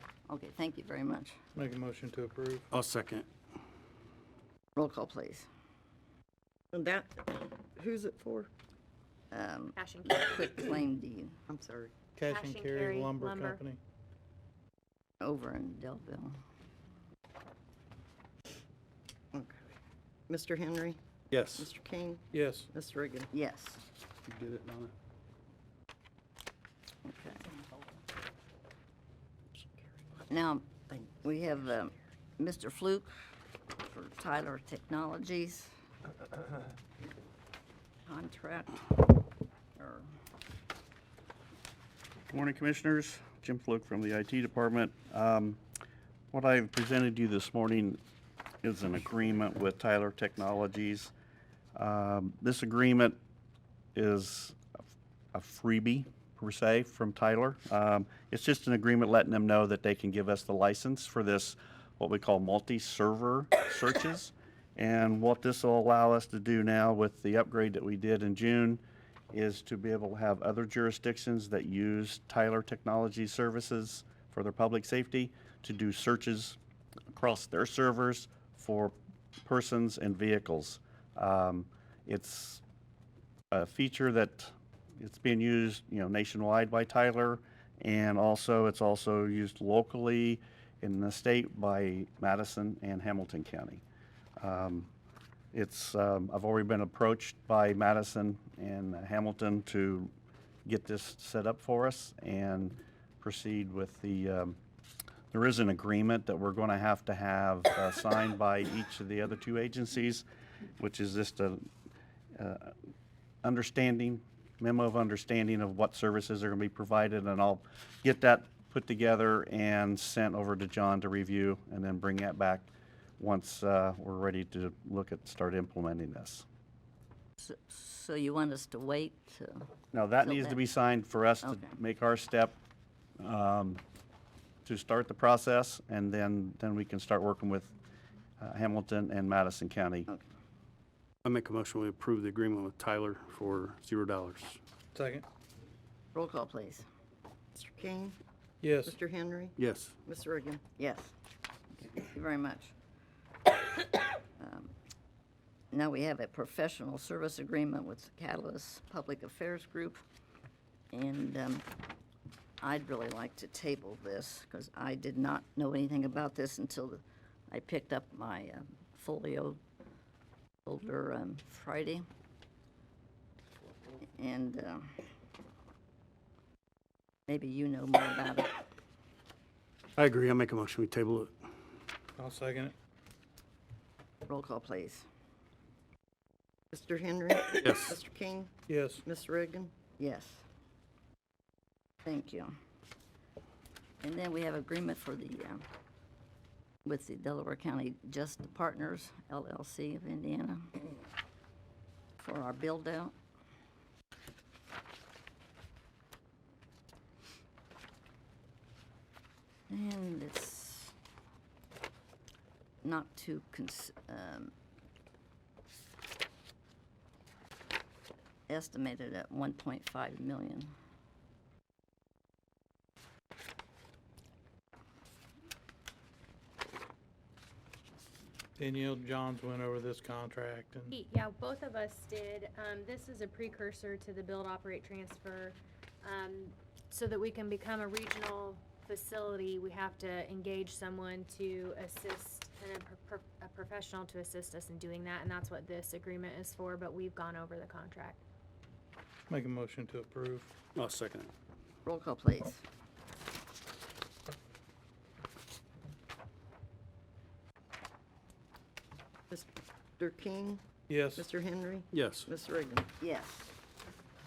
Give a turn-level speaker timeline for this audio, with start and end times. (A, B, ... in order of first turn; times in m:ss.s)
0:00.3-0:01.4 A
0:01.5-0:02.6 B
0:02.7-0:03.3 C
0:04.8-0:05.5 A
0:06.7-0:08.5 D
0:09.3-0:11.4 A
0:09.7-0:10.5 E
0:11.5-0:11.9 D
0:12.2-0:13.8 B
0:12.3-0:13.6 E
0:15.2-0:16.3 A
0:19.3-0:19.6 D
0:20.3-0:21.0 D
0:21.3-0:21.7 C
0:21.6-0:23.3 D
0:22.3-0:22.7 B
0:23.3-0:23.8 A
0:24.3-0:24.9 C
0:27.0-0:27.5 A
0:29.6-0:29.9 D
0:30.3-0:33.1 A
0:30.9-0:31.5 D
0:33.8-0:35.7 A
0:38.0-0:39.0 A
0:39.8-0:40.1 A
0:42.3-0:45.6 F
0:46.3-0:48.0 F
0:48.6-0:51.1 F
0:51.8-0:53.2 F
0:53.9-0:54.6 F
0:55.3-1:08.8 F
1:09.3-1:16.6 F
1:17.1-1:18.9 F
1:19.4-1:22.6 F
1:23.5-1:33.8 F
1:34.4-1:34.9 F
1:35.5-1:40.1 F
1:40.6-1:44.6 F
1:45.3-1:50.2 F
1:50.8-1:51.6 F
1:52.4-1:52.7 F
1:53.4-2:06.4 F
2:07.4-2:09.7 A
2:09.9-2:12.6 F
2:10.2-2:10.7 A
2:11.4-2:11.8 A
2:13.2-2:13.8 F
2:14.6-2:17.7 F
2:18.4-2:20.1 F
2:21.2-2:24.6 C
2:24.9-2:25.2 B
2:26.1-2:26.8 A
2:27.6-2:28.2 D
2:28.6-2:29.0 B
2:28.8-2:29.5 D
2:29.6-2:30.0 C
2:30.0-2:30.6 D
2:30.8-2:31.1 A
2:32.0-2:32.7 A
2:34.4-2:34.7 A
2:35.7-2:40.0 A
2:40.9-2:41.6 A
2:42.6-2:49.6 A
2:50.6-2:52.0 A
2:54.2-2:54.9 A
2:57.3-2:58.5 A
3:00.0-3:01.4 C
3:02.2-3:02.7 B
3:04.3-3:05.0 A
3:06.7-3:09.7 D
3:07.6-3:08.0 C
3:08.7-3:09.0 B
3:10.0-3:10.4 A
3:12.0-3:12.5 A
3:14.0-3:15.6 A
3:16.8-3:20.7 A
3:22.2-3:23.1 A
3:29.7-3:30.9 A
3:32.8-3:34.5 A
3:38.5-3:40.7 A
3:48.6-3:50.9 B
3:50.9-4:08.2 E
4:09.3-4:10.5 B
4:10.7-4:11.3 C
4:11.8-4:12.6 A
4:20.0-4:20.6 D
4:20.9-4:21.2 B
4:21.1-4:22.9 D
4:21.9-4:22.3 C
4:23.0-4:23.5 A